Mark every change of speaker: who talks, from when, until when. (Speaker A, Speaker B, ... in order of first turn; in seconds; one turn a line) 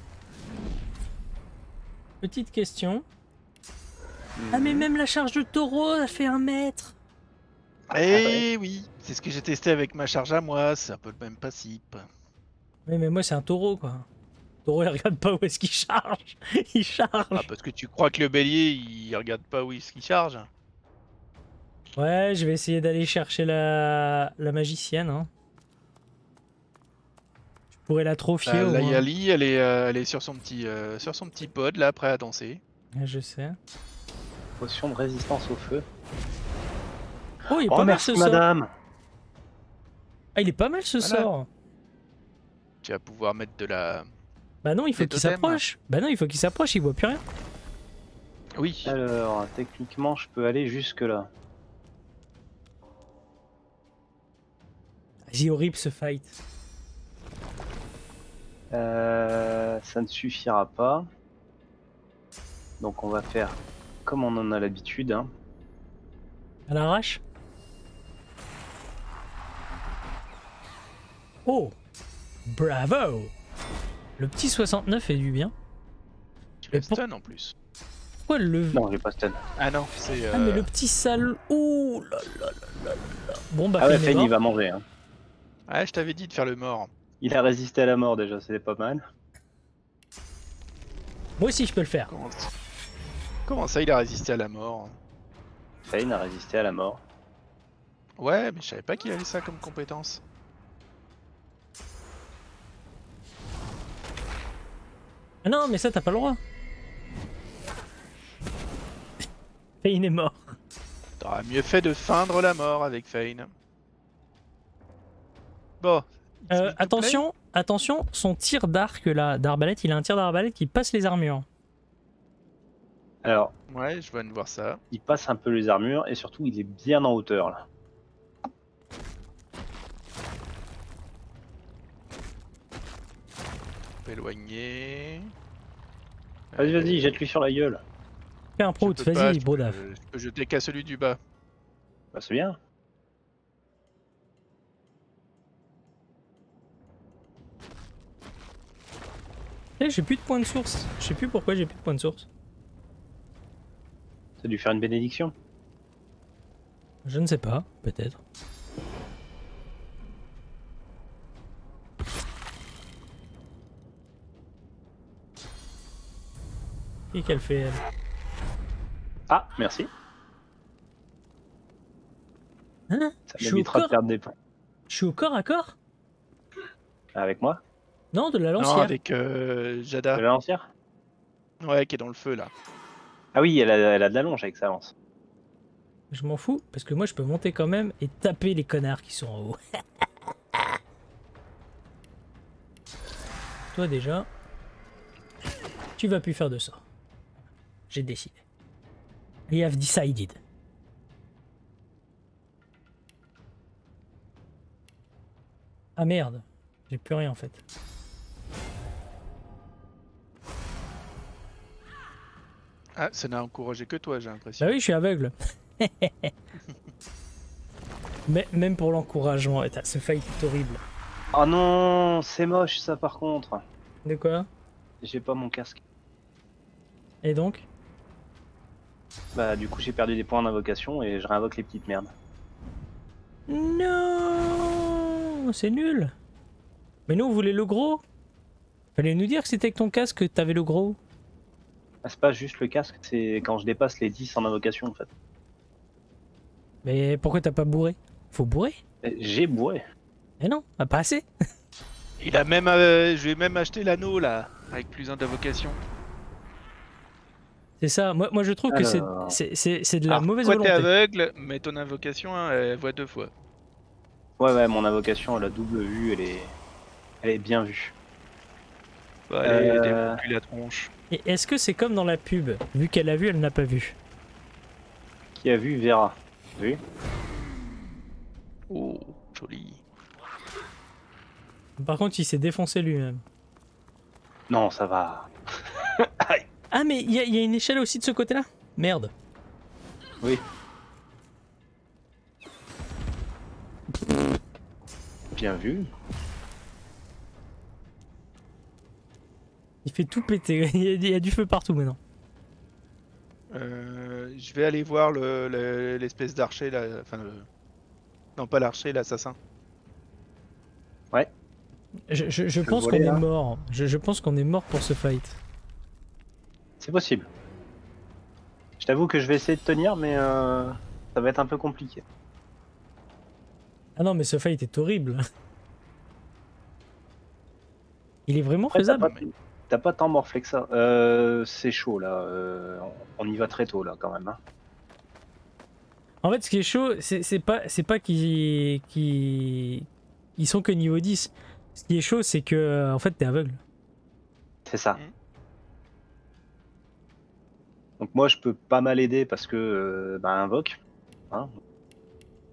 Speaker A: 2.2-3.0
Speaker B: 4.4-4.9
Speaker A: 4.5-7.0
Speaker C: 7.9-12.1
Speaker B: 8.1-8.4
Speaker A: 12.9-14.1
Speaker A: 14.7-17.5
Speaker C: 17.4-20.5
Speaker A: 22.0-25.3
Speaker A: 27.9-29.1
Speaker C: 28.5-32.6
Speaker A: 33.0-33.6
Speaker B: 34.6-35.9
Speaker A: 37.5-38.4
Speaker B: 37.7-38.7
Speaker A: 40.4-41.5
Speaker C: 41.0-41.3
Speaker C: 42.8-44.1
Speaker A: 44.6-47.2
Speaker C: 45.0-45.6
Speaker C: 48.6-49.0
Speaker B: 48.8-51.3
Speaker A: 55.3-56.4
Speaker B: 58.7-61.1
Speaker B: 62.8-65.3
Speaker A: 66.7-67.2
Speaker A: 71.5-71.8
Speaker A: 72.5-73.3
Speaker A: 74.2-75.5
Speaker C: 76.6-77.5
Speaker A: 76.7-77.0
Speaker A: 78.3-78.8
Speaker B: 78.7-79.4
Speaker C: 79.6-80.7
Speaker A: 80.3-84.3
Speaker B: 83.8-84.8
Speaker C: 85.7-86.9
Speaker B: 87.2-89.0
Speaker A: 91.4-92.1
Speaker C: 92.1-92.5
Speaker C: 93.5-95.0
Speaker B: 95.9-97.0
Speaker C: 98.2-100.2
Speaker A: 105.4-106.4
Speaker A: 109.8-110.5
Speaker C: 111.2-113.5
Speaker C: 115.8-117.2
Speaker A: 116.5-121.5
Speaker B: 123.2-123.5
Speaker C: 123.7-124.8
Speaker B: 124.9-127.7
Speaker C: 134.1-135.3
Speaker C: 136.5-137.1
Speaker B: 136.6-137.8
Speaker A: 138.6-139.8
Speaker C: 138.8-141.2
Speaker B: 142.1-142.6
Speaker A: 149.8-152.3
Speaker B: 154.4-155.3
Speaker A: 157.1-158.2
Speaker A: 167.1-167.8
Speaker B: 169.3-169.9
Speaker A: 172.9-173.9
Speaker B: 173.3-174.3
Speaker A: 174.9-175.8
Speaker B: 177.2-177.6
Speaker A: 178.1-178.9
Speaker C: 178.6-180.2
Speaker B: 180.2-180.7
Speaker C: 181.6-182.5
Speaker B: 183.3-184.9
Speaker A: 186.1-189.6
Speaker A: 193.7-194.3
Speaker A: 196.0-196.8
Speaker A: 197.9-198.4
Speaker A: 199.5-200.4
Speaker A: 206.0-207.6
Speaker C: 213.0-214.8
Speaker A: 214.6-216.3
Speaker A: 218.3-220.8
Speaker B: 221.3-223.6
Speaker A: 224.1-224.5
Speaker B: 225.0-225.8
Speaker A: 227.2-227.7
Speaker B: 229.3-232.1
Speaker A: 233.5-236.1
Speaker A: 237.1-238.0
Speaker A: 239.0-241.0
Speaker B: 242.0-245.1
Speaker A: 246.8-248.8
Speaker B: 249.0-249.8
Speaker A: 250.4-251.3
Speaker C: 252.2-255.8
Speaker A: 257.8-260.9
Speaker B: 258.7-259.4
Speaker C: 260.1-263.3
Speaker B: 264.4-266.6
Speaker B: 267.2-267.9
Speaker C: 269.3-270.9
Speaker B: 269.4-270.2
Speaker A: 271.1-274.0
Speaker B: 275.4-276.8
Speaker C: 278.7-279.8
Speaker A: 281.8-283.2
Speaker B: 284.5-286.4
Speaker A: 286.7-289.1
Speaker B: 295.4-295.9
Speaker A: 299.9-302.0
Speaker C: 303.5-307.5
Speaker C: 308.4-309.4
Speaker A: 312.1-315.4
Speaker B: 312.7-313.2
Speaker B: 316.8-317.3
Speaker B: 318.8-322.0
Speaker A: 324.0-325.2
Speaker A: 328.3-329.1
Speaker B: 328.7-334.4
Speaker A: 336.2-343.6
Speaker B: 344.7-345.0
Speaker B: 348.0-350.8